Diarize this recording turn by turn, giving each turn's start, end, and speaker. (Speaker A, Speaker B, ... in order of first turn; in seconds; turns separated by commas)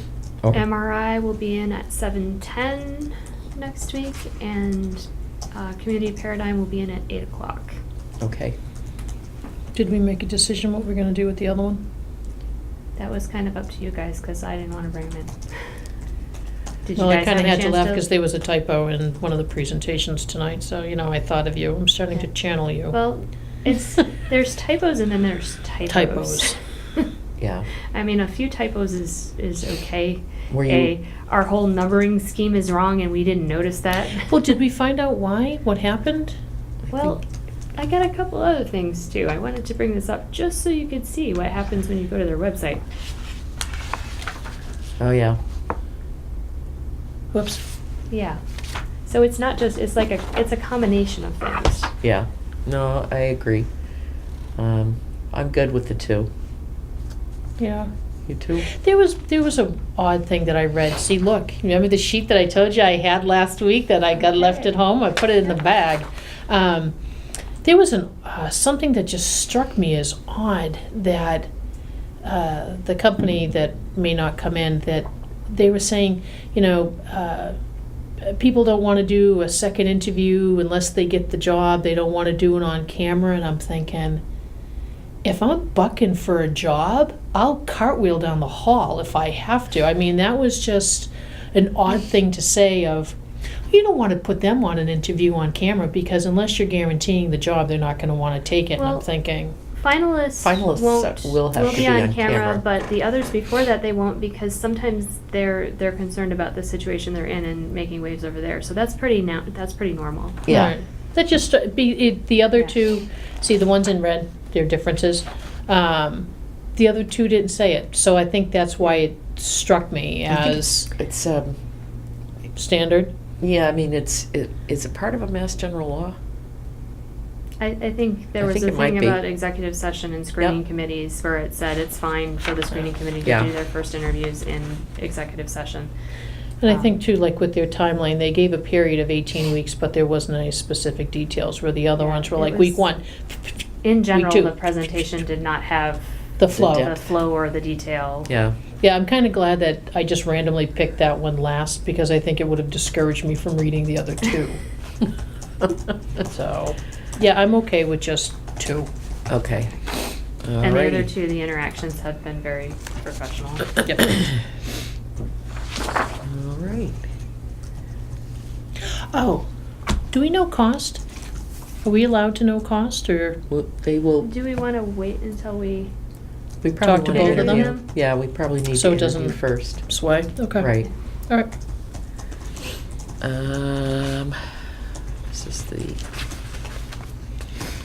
Speaker A: 0.5-7.8, Speaker B: 8.2-8.6, Speaker C: 9.7-11.8, Speaker A: 13.0-15.3, Speaker A: 16.9-18.1, Speaker C: 17.0-23.0, Speaker A: 22.9-27.1, Speaker C: 25.9-26.6, Speaker B: 27.4-27.7, Speaker A: 27.9-34.4, Speaker B: 30.5-30.9, Speaker C: 34.3-36.4, Speaker A: 36.9-37.2, Speaker A: 37.8-42.9, Speaker B: 45.0-45.4, Speaker C: 47.3-47.6, Speaker A: 48.1-48.4, Speaker A: 49.1-51.9, Speaker B: 52.0-53.7, Speaker B: 54.6-56.3, Speaker C: 57.6-57.9, Speaker B: 58.3-58.7, Speaker C: 58.7-67.0, Speaker C: 67.6-71.5, Speaker C: 72.2-77.5, Speaker C: 78.2-84.2, Speaker C: 85.2-93.2, Speaker C: 93.7-99.6, Speaker A: 98.8-99.1, Speaker A: 99.7-110.4, Speaker B: 100.4-102.6, Speaker B: 110.5-110.8, Speaker C: 110.5-120.9, Speaker B: 120.3-121.6, Speaker C: 122.5-123.1, Speaker B: 123.4-126.2, Speaker A: 127.6-135.9, Speaker B: 128.4-129.2, Speaker B: 133.2-133.5, Speaker C: 136.6-143.6, Speaker A: 142.0-142.8, Speaker A: 143.8-146.2, Speaker C: 144.1-144.5, Speaker C: 146.4-146.9, Speaker B: 146.6-146.9, Speaker A: 146.7-148.3, Speaker B: 148.3-148.6, Speaker C: 148.8-154.6, Speaker C: 156.2-158.9, Speaker B: 159.3-159.8, Speaker B: 160.4-161.1, Speaker A: 160.6-163.9, Speaker B: 166.2-167.0, Speaker C: 169.1-169.5, Speaker C: 170.1-171.0, Speaker C: 171.8-173.4, Speaker B: 173.5-174.3, Speaker A: 174.2-175.9, Speaker B: 176.6-179.9, Speaker C: 176.8-177.7, Speaker A: 177.0-177.8, Speaker C: 178.8-180.7, Speaker B: 180.6-180.9, Speaker B: 183.2-184.4, Speaker B: 185.3-186.0